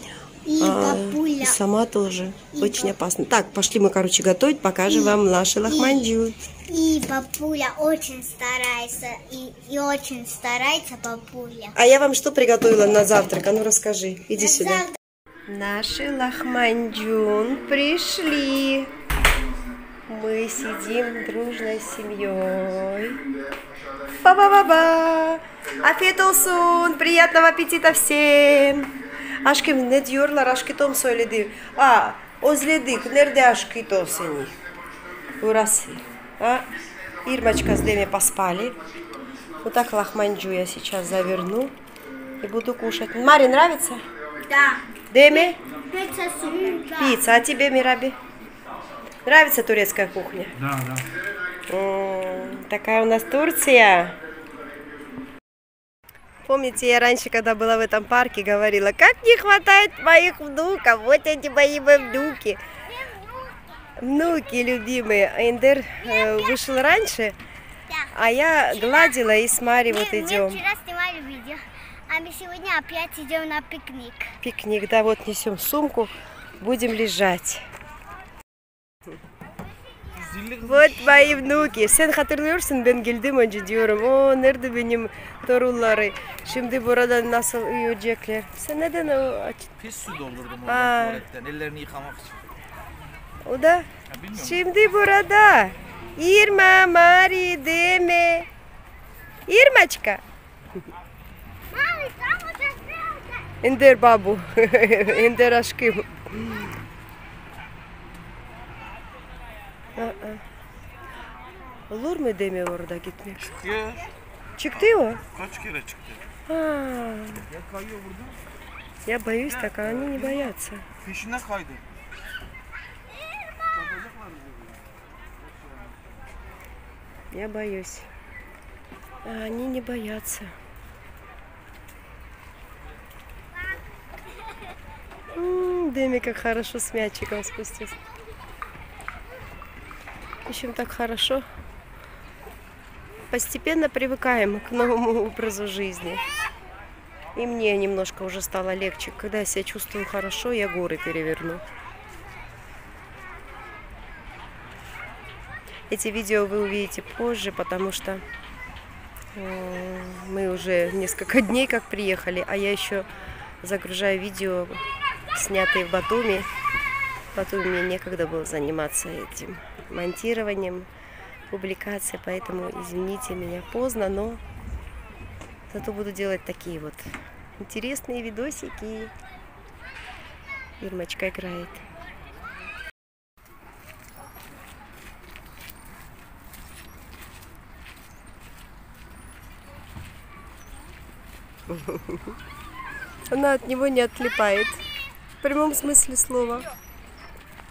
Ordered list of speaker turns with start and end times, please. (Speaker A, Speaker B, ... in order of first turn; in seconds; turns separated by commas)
Speaker A: 0.4-1.6, Speaker B: 0.6-6.4, Speaker A: 2.6-2.9, Speaker A: 4.9-6.1, Speaker A: 6.7-11.7, Speaker B: 11.7-14.9, Speaker B: 15.5-18.9, Speaker B: 20.1-23.2, Speaker B: 24.2-28.9, Speaker B: 29.4-34.5, Speaker B: 35.4-36.6, Speaker B: 37.2-38.8, Speaker B: 39.6-41.7, Speaker B: 42.4-44.0, Speaker A: 44.5-47.3, Speaker B: 45.1-45.6, Speaker B: 46.8-48.2, Speaker B: 49.2-50.5, Speaker B: 51.7-54.2, Speaker B: 56.4-62.6, Speaker B: 64.0-67.3, Speaker A: 67.9-69.3, Speaker B: 68.1-70.6, Speaker A: 69.8-74.3, Speaker B: 74.4-77.6, Speaker C: 80.1-80.6, Speaker B: 80.6-89.7, Speaker C: 81.1-81.5, Speaker C: 89.8-92.3, Speaker B: 90.6-91.3, Speaker B: 93.4-98.5, Speaker B: 99.5-100.2, Speaker A: 101.7-103.2, Speaker B: 103.6-106.7, Speaker B: 110.0-110.4, Speaker B: 111.9-113.5, Speaker C: 113.7-114.0, Speaker B: 114.6-115.2, Speaker C: 115.4-116.2, Speaker B: 116.5-117.5, Speaker C: 117.8-118.3, Speaker B: 119.0-120.8, Speaker C: 121.0-121.8, Speaker B: 127.3-128.1, Speaker B: 129.2-130.5, Speaker B: 135.3-137.9, Speaker B: 140.4-141.4, Speaker B: 143.3-146.2, Speaker B: 147.3-151.6, Speaker B: 155.9-158.2, Speaker B: 159.3-163.1, Speaker B: 163.6-166.5, Speaker B: 167.3-170.9, Speaker B: 171.5-174.4, Speaker B: 175.7-179.1, Speaker B: 180.8-181.8, Speaker B: 191.7-192.3, Speaker B: 193.3-194.8, Speaker B: 195.4-196.7